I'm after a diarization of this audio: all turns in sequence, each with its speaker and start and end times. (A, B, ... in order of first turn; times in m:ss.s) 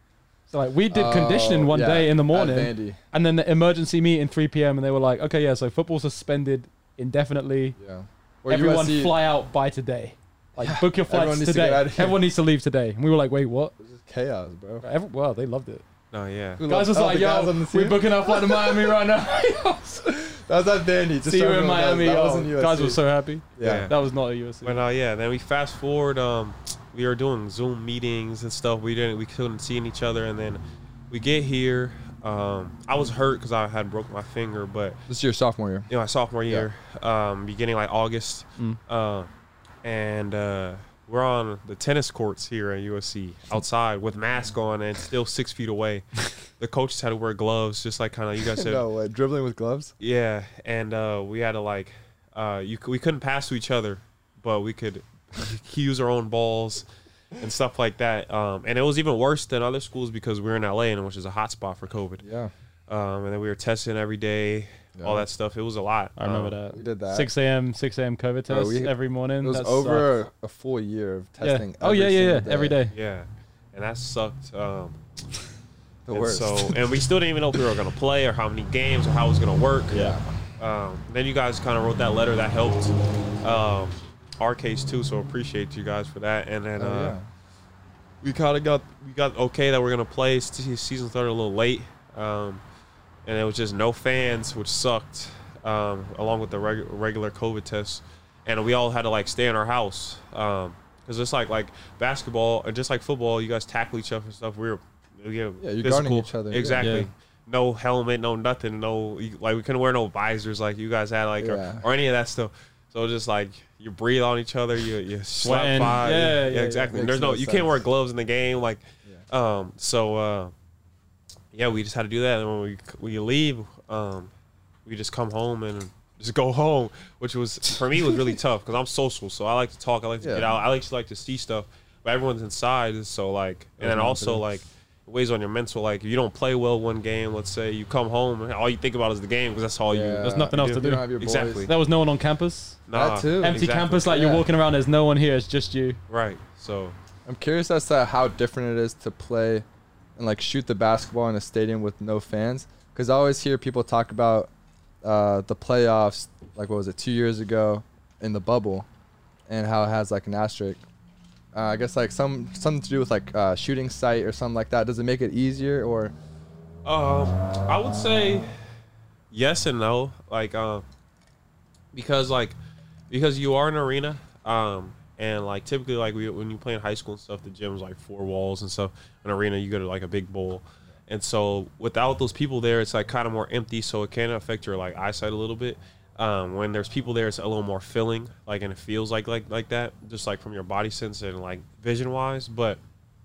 0:00.5-0:07.8 A
0:00.9-0:03.0 B
0:07.8-0:09.2 B
0:08.5-0:13.8 A
0:10.6-0:12.2 B
0:13.8-0:14.8 B
0:14.8-0:15.8 A
0:16.1-0:16.6 C
0:16.6-0:19.0 B
0:16.7-0:20.1 A
0:20.0-0:23.0 B
0:21.2-0:24.8 A
0:23.6-0:23.9 B
0:23.6-0:23.9 C
0:24.6-0:35.0 C
0:35.1-0:35.9 B
0:35.9-0:39.3 C
0:39.8-0:48.8 C
0:48.4-0:49.9 B
0:50.0-0:56.8 C
0:57.4-1:02.2 C
1:02.2-1:02.5 B
1:02.9-1:06.6 C
1:05.0-1:05.3 B
1:06.2-1:10.1 A
1:06.7-1:07.3 B
1:08.5-1:12.8 B
1:11.4-1:12.9 A
1:12.9-1:15.0 C
1:16.1-1:16.8 B
1:16.1-1:27.2 C
1:19.9-1:20.3 B
1:26.8-1:27.3 B
1:28.2-1:32.6 C
1:33.3-2:00.5 C
1:45.6-1:47.1 B
1:46.8-1:47.1 A
1:51.4-1:51.8 B
1:55.4-1:57.0 A
1:56.9-1:57.8 B
2:01.5-2:04.3 C
2:04.9-2:21.7 C
2:10.2-2:10.5 B
2:13.8-2:14.5 B
2:19.9-2:21.7 B
2:20.2-2:21.1 A
2:21.7-2:22.8 A
2:22.9-2:24.1 C
2:22.9-2:24.4 B
2:23.4-2:26.0 A
2:26.1-2:27.0 C
2:27.3-2:29.6 B
2:30.2-2:34.5 B
2:35.0-2:38.9 B
2:39.5-2:40.8 B
2:41.5-2:46.1 B
2:46.8-2:48.5 C
2:49.3-2:50.8 C
2:51.9-2:52.6 C
2:53.1-3:12.8 C